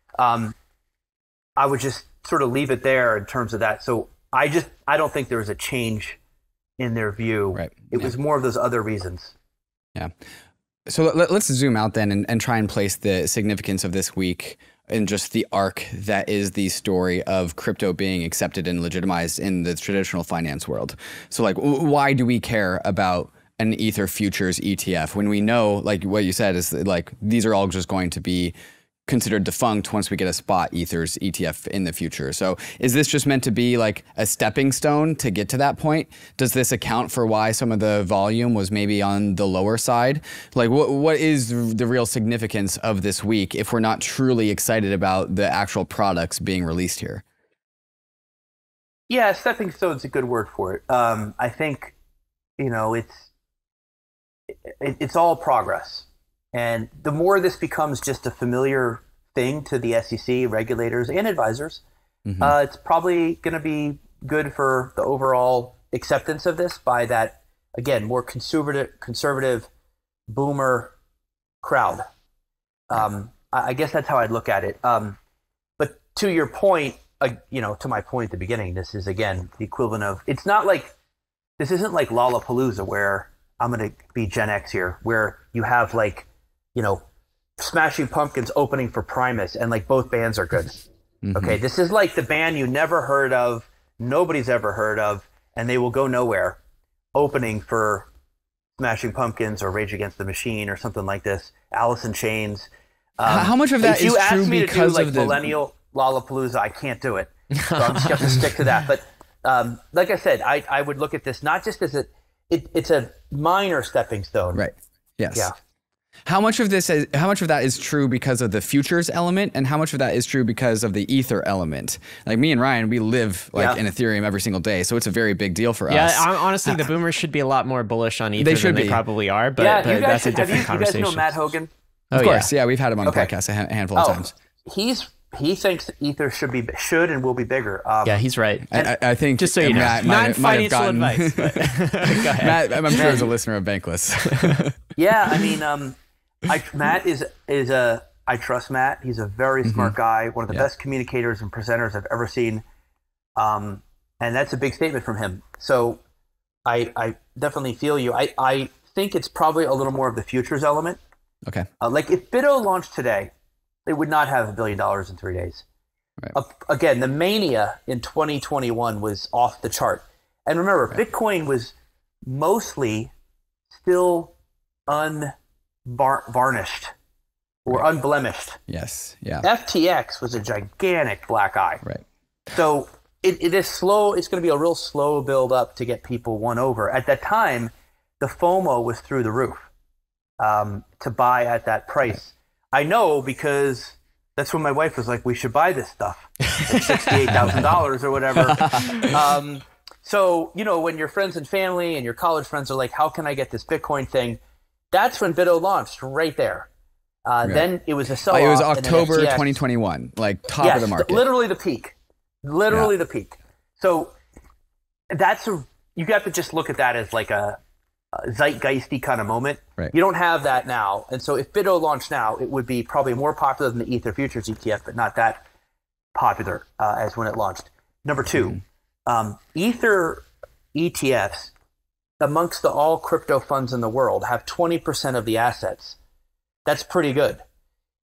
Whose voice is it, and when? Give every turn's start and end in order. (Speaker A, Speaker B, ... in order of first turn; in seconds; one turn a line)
Speaker A: 0.2-0.5
Speaker A: 1.6-6.2
Speaker A: 6.8-9.3
Speaker B: 7.5-8.1
Speaker B: 10.8-28.5
Speaker B: 29.1-47.2
Speaker A: 49.1-51.9
Speaker A: 52.6-53.3
Speaker A: 54.7-61.8
Speaker B: 62.2-62.5
Speaker A: 62.4-69.7
Speaker A: 70.3-70.9
Speaker A: 71.6-72.0
Speaker A: 72.9-75.2
Speaker A: 75.8-80.9
Speaker A: 81.6-87.0
Speaker A: 87.6-90.8
Speaker B: 91.2-91.6
Speaker A: 91.3-96.6
Speaker A: 97.1-98.1
Speaker A: 98.8-114.6
Speaker B: 103.2-105.5
Speaker C: 107.6-108.2
Speaker B: 114.5-115.5
Speaker B: 116.2-126.8
Speaker A: 123.5-123.8
Speaker C: 125.9-131.3
Speaker B: 128.4-129.0
Speaker A: 129.6-131.7
Speaker C: 132.1-132.5
Speaker B: 132.1-134.3
Speaker A: 133.0-133.3
Speaker A: 133.9-138.2
Speaker C: 138.1-138.7
Speaker B: 138.7-145.5
Speaker C: 139.4-143.2
Speaker A: 142.9-143.2
Speaker C: 144.2-144.6
Speaker A: 144.9-145.9
Speaker A: 146.4-152.6
Speaker B: 149.6-149.9
Speaker A: 153.3-156.0
Speaker A: 156.7-161.0
Speaker A: 161.8-163.3
Speaker A: 163.8-165.6
Speaker A: 166.3-173.1
Speaker A: 173.7-174.3
Speaker A: 174.9-175.3
Speaker A: 175.8-176.9
Speaker A: 177.6-178.6
Speaker B: 178.7-179.5
Speaker A: 179.4-181.8
Speaker A: 182.5-189.7
Speaker A: 190.4-204.4
Speaker B: 197.3-197.6
Speaker B: 198.4-199.2
Speaker A: 204.9-206.7
Speaker A: 207.2-209.6
Speaker B: 208.3-211.2
Speaker A: 210.6-214.1
Speaker A: 215.1-217.6
Speaker A: 218.1-225.4
Speaker A: 226.1-231.5
Speaker A: 232.2-236.0
Speaker A: 236.7-237.4